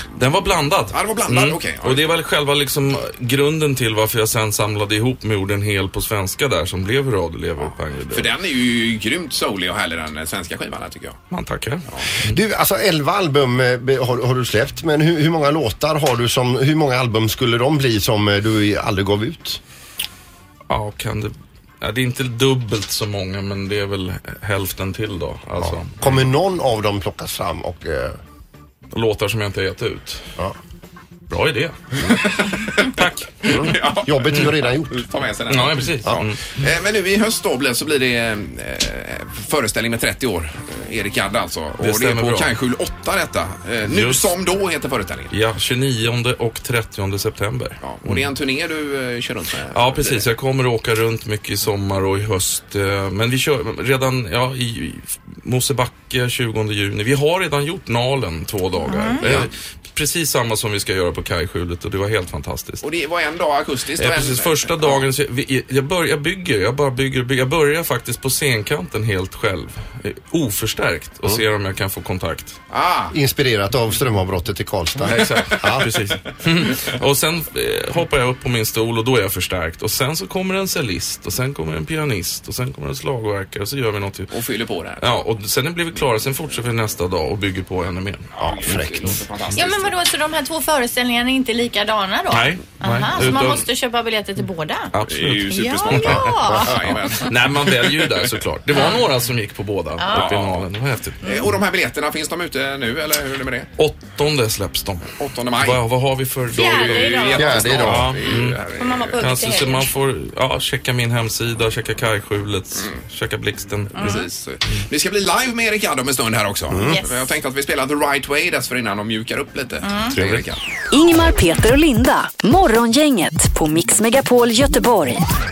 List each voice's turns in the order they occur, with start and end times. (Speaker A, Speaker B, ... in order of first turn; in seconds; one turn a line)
Speaker A: 0.1-8.3
Speaker B: 0.9-2.1
Speaker B: 8.1-11.2
Speaker A: 11.3-12.4
Speaker C: 12.3-19.6
Speaker A: 20.7-25.9
Speaker C: 25.6-28.2
Speaker A: 28.9-30.2
Speaker A: 31.3-31.8
Speaker B: 32.1-45.3
Speaker A: 32.8-33.5
Speaker C: 33.5-35.1
Speaker A: 35.5-36.6
Speaker A: 41.8-42.5
Speaker A: 43.9-44.3
Speaker A: 45.3-48.3
Speaker B: 47.8-50.2
Speaker A: 49.7-62.8
Speaker D: 58.9-59.2
Speaker B: 59.2-59.5
Speaker B: 62.8-65.0
Speaker A: 64.0-72.6
Speaker B: 72.7-73.1
Speaker C: 73.1-75.9
Speaker A: 75.0-84.3
Speaker B: 75.1-75.7
Speaker B: 84.3-85.1
Speaker A: 85.0-88.8
Speaker B: 88.4-89.9
Speaker C: 88.4-89.2
Speaker D: 89.5-94.9
Speaker A: 92.3-93.7
Speaker A: 94.9-101.2
Speaker B: 95.1-98.3
Speaker D: 95.5-96.7
Speaker C: 96.5-96.8
Speaker D: 98.7-99.0
Speaker D: 100.0-100.3
Speaker B: 100.1-100.7
Speaker D: 101.2-101.5
Speaker B: 101.2-103.7
Speaker A: 103.8-108.6
Speaker B: 105.2-105.8
Speaker D: 106.5-107.9
Speaker B: 106.5-109.2
Speaker C: 107.3-108.2
Speaker D: 108.8-109.9
Speaker A: 109.2-114.2
Speaker B: 112.8-113.0
Speaker B: 113.9-120.6
Speaker D: 114.0-114.2
Speaker C: 116.7-117.0
Speaker D: 116.9-117.3
Speaker D: 119.8-120.1
Speaker C: 120.1-120.4
Speaker E: 120.9-125.2